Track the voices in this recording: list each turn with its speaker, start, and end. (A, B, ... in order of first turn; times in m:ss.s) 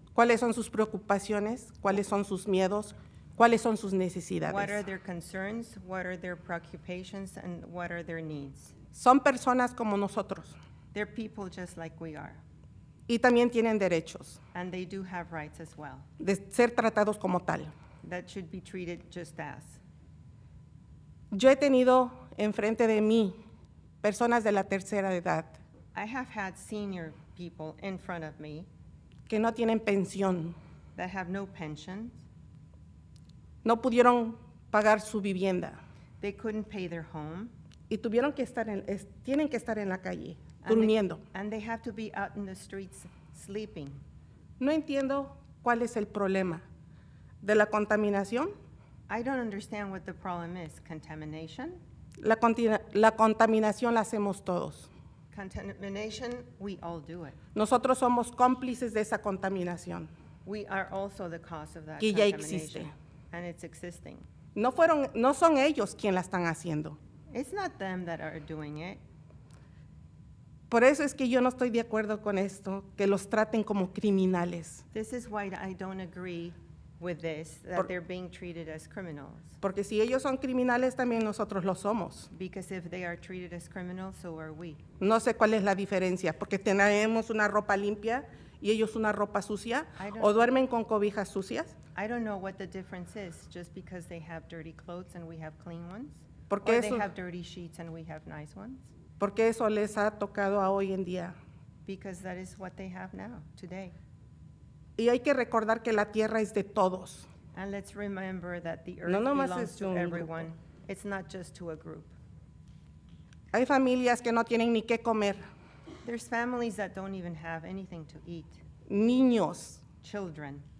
0:00.1-0:04.8 A
0:04.4-0:08.7 B
0:08.9-0:10.6 A
0:10.9-0:12.4 B
0:13.1-0:14.4 A
0:14.5-0:16.1 B
0:16.2-0:17.7 A
0:18.0-0:19.8 B
0:21.3-0:23.4 A
0:24.0-0:25.6 A
0:25.9-0:28.7 B
0:29.3-0:30.6 A
0:30.9-0:32.2 B
0:33.6-0:35.8 A
0:36.2-0:37.5 B
0:37.9-0:41.2 A
0:40.6-0:44.0 B
0:44.6-0:46.6 A
0:47.4-0:48.5 A
0:49.1-0:51.8 B
0:52.2-0:54.9 A
0:55.3-0:57.4 B
0:57.5-1:00.1 A
1:00.4-1:04.2 B
1:02.0-1:02.9 A
1:04.5-1:07.0 A
1:07.3-1:09.0 B
1:10.7-1:14.8 A
1:14.9-1:19.6 B
1:19.6-1:22.3 A
1:22.3-1:24.8 B
1:25.0-1:31.7 A
1:30.0-1:30.5 B
1:31.9-1:38.9 B
1:36.5-1:37.1 A
1:39.2-1:41.4 A
1:41.8-1:43.9 B
1:45.0-1:47.3 A
1:47.5-1:52.1 B
1:49.0-1:50.5 A
1:53.5-1:55.4 A
1:56.0-1:58.6 B
1:58.9-1:59.8 A
2:00.0-2:00.6 B